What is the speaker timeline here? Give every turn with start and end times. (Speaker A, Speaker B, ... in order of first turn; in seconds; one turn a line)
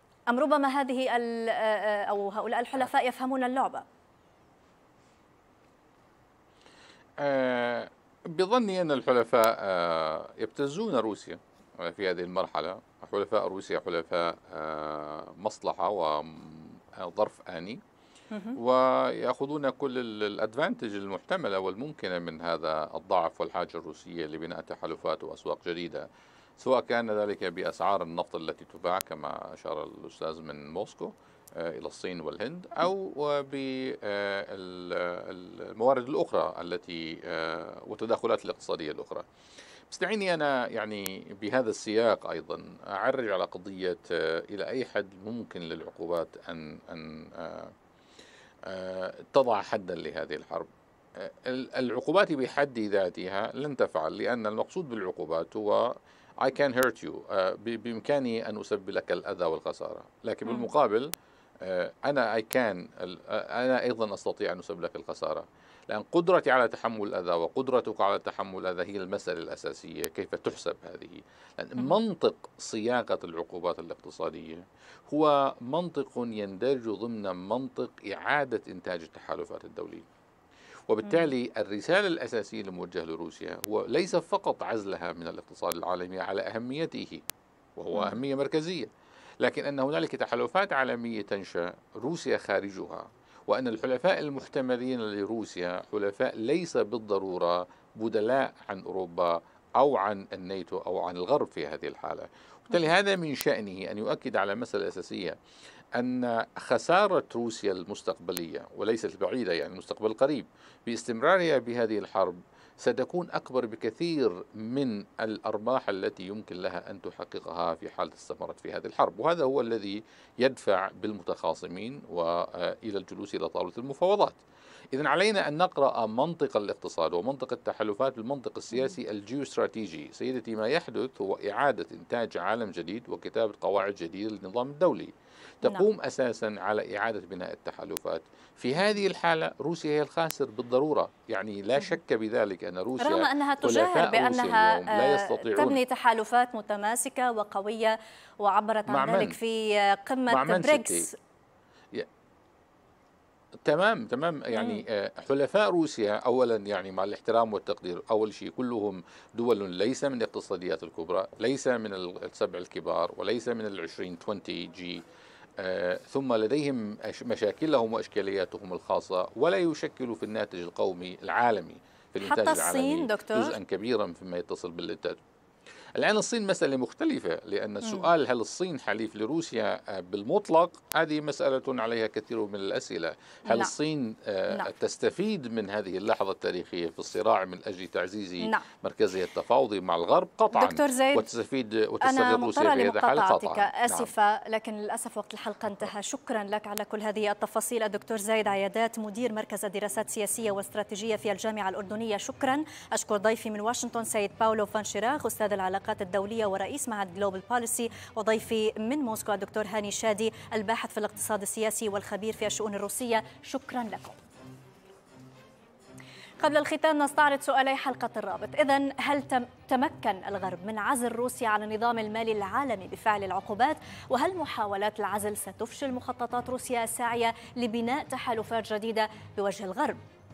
Speaker A: 0.3-3.9
Speaker B: 7.2-17.8
Speaker A: 18.3-18.6
Speaker B: 18.5-26.1
Speaker B: 26.6-39.3
Speaker B: 39.9-47.7
Speaker B: 48.7-61.1
Speaker B: 61.6-80.1
Speaker B: 80.9-87.2
Speaker A: 81.0-81.3
Speaker B: 87.8-105.4
Speaker A: 87.9-88.2
Speaker B: 106.0-124.4
Speaker B: 124.9-145.8
Speaker A: 143.0-151.1
Speaker B: 148.9-149.3
Speaker B: 150.3-151.1
Speaker B: 153.6-165.0
Speaker A: 154.5-154.8
Speaker B: 165.6-175.2
Speaker A: 172.2-173.6
Speaker B: 176.0-194.1
Speaker A: 190.5-191.3
Speaker A: 192.0-214.2
Speaker A: 216.4-230.0